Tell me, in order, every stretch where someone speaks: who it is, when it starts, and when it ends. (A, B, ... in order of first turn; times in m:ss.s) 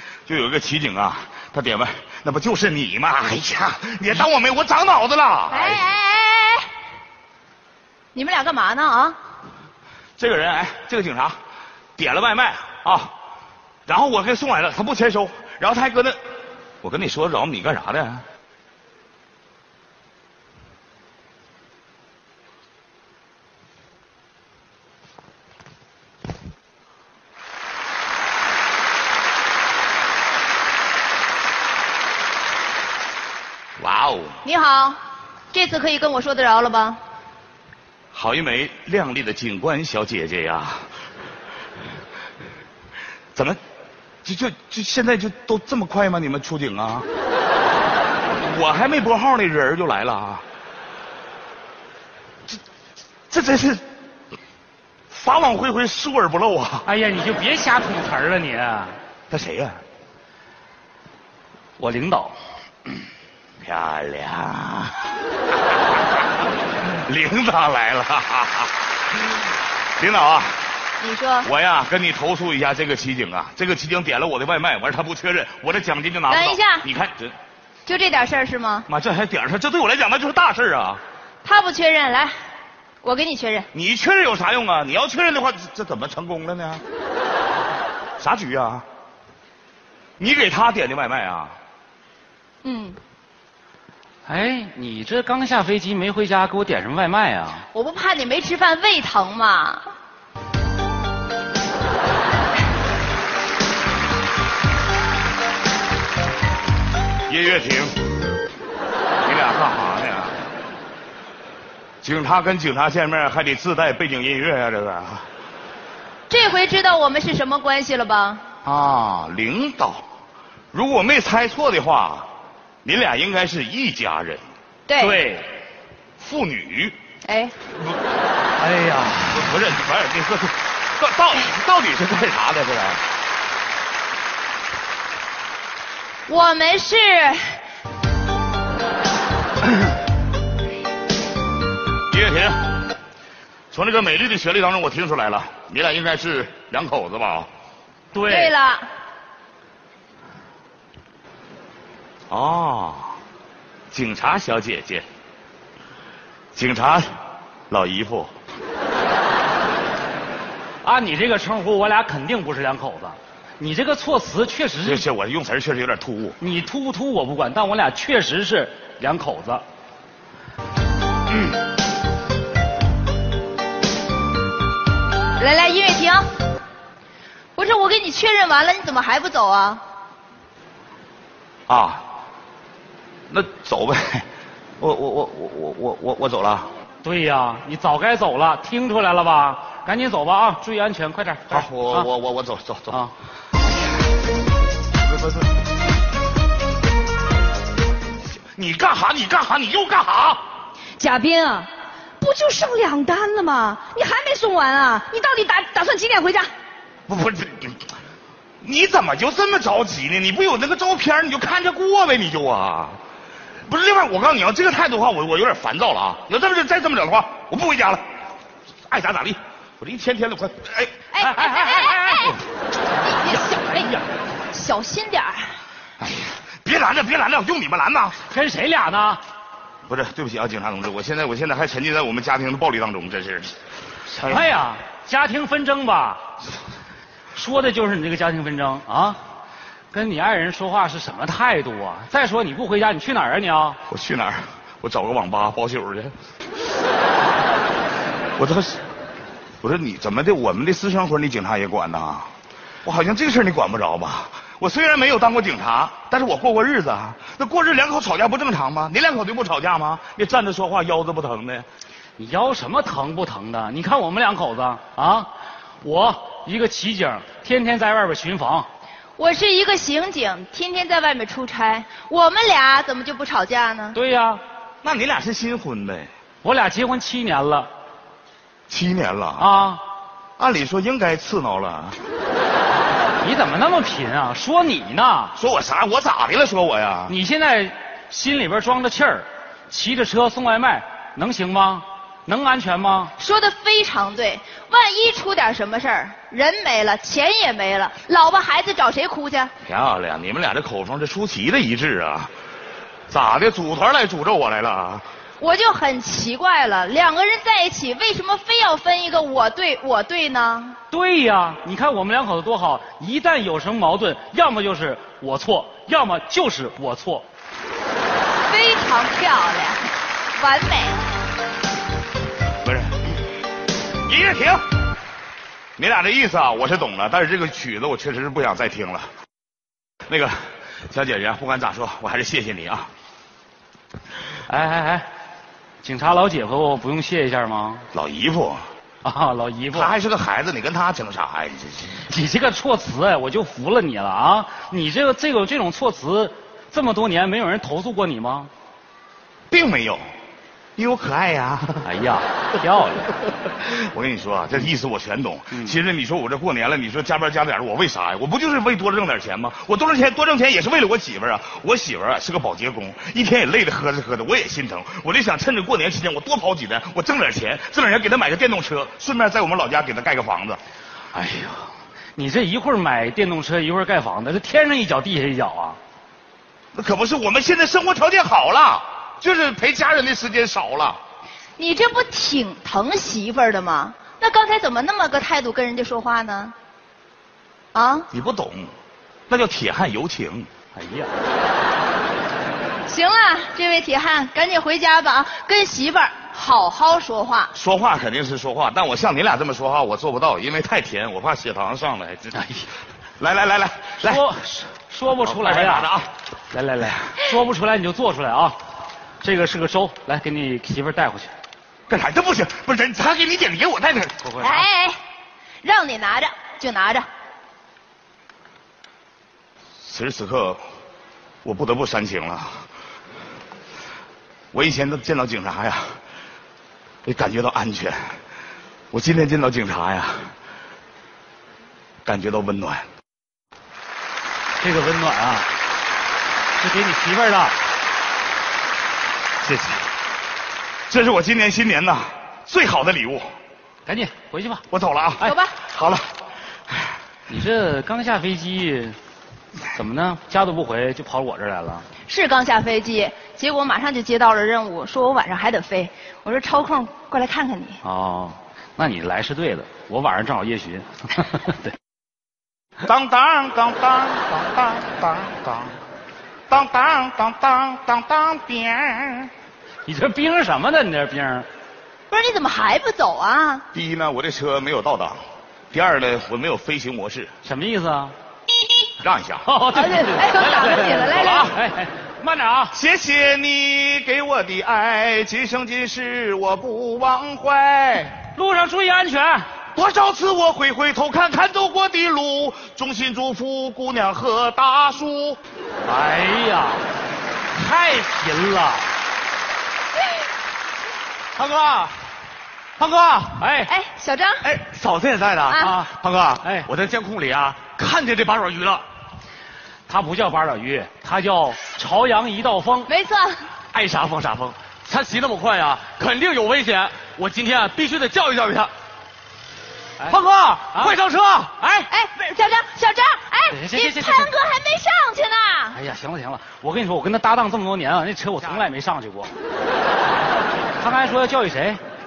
0:00.3-0:05.8 A
0:05.5-0:06.7 B
0:08.1-0:09.2 B
0:10.2-0:11.4 A
0:12.0-0:13.1 A
0:13.9-0:16.2 A
0:16.8-0:18.2 A
0:33.8-0:34.4 A
0:34.4-0:35.0 B
0:35.5-0:37.0 B
0:38.1-0:40.9 A
0:44.2-0:47.0 A
0:48.4-0:50.4 A
0:53.3-0:53.8 A
0:55.1-0:56.9 A
0:56.8-0:59.0 C
0:59.3-0:59.8 A
1:01.8-1:02.4 C
1:03.6-1:05.1 A
1:06.8-1:08.7 A
1:10.0-1:10.6 A
1:11.0-1:11.5 B
1:11.4-1:17.4 A
1:16.3-1:16.8 B
1:17.9-1:18.9 B
1:18.9-1:21.0 A
1:21.4-1:22.3 B
1:23.0-1:23.7 B
1:23.7-1:26.8 A
1:28.2-1:28.8 A
1:30.2-1:31.5 A
1:32.6-1:33.0 B
1:34.2-1:37.6 C
1:37.7-1:39.9 B
1:47.3-1:48.0 A
1:49.2-1:50.4 A
1:52.0-1:55.3 A
1:56.3-1:58.4 B
1:58.6-2:00.0 A
2:00.7-2:02.3 A
2:02.8-2:04.4 A
2:04.9-2:05.2 B
2:05.0-2:05.5 C
2:06.2-2:07.0 A
2:07.2-2:07.5 B
2:08.6-2:09.4 C
2:09.2-2:13.0 A
2:16.3-2:17.6 B
2:22.1-2:22.6 A
2:23.7-2:27.5 A
2:28.1-2:28.5 C
2:28.2-2:28.8 B
2:32.3-2:33.2 A
2:33.9-2:35.0 A
2:36.5-2:37.0 A
2:37.7-2:38.3 A
2:40.8-2:45.0 C
2:44.8-2:46.4 A
2:46.4-2:49.6 C
2:55.4-2:56.3 B
2:57.6-2:59.8 B
3:01.7-3:02.0 A
3:03.3-3:04.2 A
3:04.8-3:06.7 A
3:07.0-3:12.1 C
3:11.5-3:13.0 A
3:18.4-3:20.4 A
3:21.0-3:21.7 D
3:22.2-3:26.5 D
3:27.1-3:27.8 A
3:28.6-3:33.0 A
3:33.7-3:38.0 A
3:38.9-3:41.6 A
3:41.1-3:42.4 B
3:41.6-3:42.3 C
3:43.0-3:45.6 B
3:46.0-3:48.2 A
3:48.2-3:49.2 C
3:49.9-3:53.5 A
3:54.1-3:56.2 C
3:57.3-3:59.2 C
3:59.9-4:03.8 C
4:03.9-4:06.1 A
4:08.4-4:08.8 A
4:09.6-4:12.3 A
4:12.8-4:21.7 A
4:22.2-4:25.3 C
4:25.8-4:28.7 C
4:29.2-4:34.0 B
4:34.0-4:34.4 C
4:34.8-4:36.1 A
4:36.4-4:37.7 C
4:38.7-4:39.5 A
4:39.4-4:39.8 C
4:40.4-4:42.0 A
4:43.2-4:45.4 C
4:45.4-4:47.1 A
4:47.1-4:53.1 C
4:53.2-4:59.5 B
4:59.6-5:02.3 A
5:03.1-5:05.0 A
5:05.4-5:10.8 B
5:10.9-5:17.3 C
5:18.5-5:19.8 B
5:20.4-5:21.0 B
5:22.6-5:23.1 A
5:24.0-5:24.6 A
5:25.8-5:29.1 A
5:30.1-5:30.4 A
5:30.9-5:32.9 A
5:34.5-5:35.1 C
5:35.8-5:37.9 C
5:37.9-5:38.6 A
5:39.0-5:39.9 C
5:39.7-5:42.0 A
5:42.0-5:48.5 C
5:49.5-5:50.0 A
5:50.8-5:51.9 A
5:51.8-5:53.1 C
5:53.6-6:10.6 A
6:11.1-6:15.8 C
6:16.7-6:21.0 A
6:21.6-6:26.5 B
6:27.7-6:28.1 B
6:28.1-6:28.7 A
6:29.3-6:30.5 A
6:30.8-6:31.1 C
6:32.9-6:37.5 B
6:37.5-6:42.6 A
6:43.2-6:44.2 A
6:44.0-6:45.9 C
6:45.2-6:46.1 A
6:46.5-6:48.6 C
6:49.2-6:51.3 C
6:51.9-6:54.5 A
6:54.4-6:55.0 B
6:55.6-6:57.0 B
6:59.8-7:00.6 A
7:01.4-7:02.6 A
7:04.5-7:06.0 A
7:07.0-7:08.1 A
7:08.9-7:10.3 A
7:12.0-7:12.9 A
7:14.6-7:15.5 C
7:16.6-7:17.5 C
7:19.4-7:19.8 A
7:20.9-7:23.3 A
7:23.9-7:24.6 C
7:24.7-7:26.1 A
7:25.2-7:25.6 B
7:27.3-7:29.0 C
7:29.7-7:31.9 C
7:32.1-7:37.8 B
7:37.8-7:41.7 C
7:42.8-7:45.8 A
7:46.5-7:49.3 A
7:49.8-7:51.5 C
7:52.1-7:53.6 B
7:53.7-7:55.2 A
7:55.7-7:57.3 A
7:57.4-7:58.1 C
7:59.0-7:59.5 A
7:59.5-8:02.7 C
7:59.7-8:01.6 B
8:02.7-8:08.2 A
8:08.3-8:09.5 C
8:09.8-8:15.4 A
8:15.8-8:16.8 C
8:17.5-8:18.9 C
8:21.4-8:22.0 E
8:22.8-8:23.4 E
8:23.4-8:23.7 C
8:23.7-8:24.5 B
8:24.4-8:28.8 E
8:25.5-8:25.8 B
8:25.6-8:25.9 C
8:26.4-8:26.7 C
8:29.9-8:32.9 C
8:32.9-8:33.5 B
8:33.7-8:38.7 E
8:40.1-8:41.8 E
8:41.9-8:45.8 B
8:43.5-8:44.3 C
8:45.7-8:49.3 C
8:50.8-8:51.8 C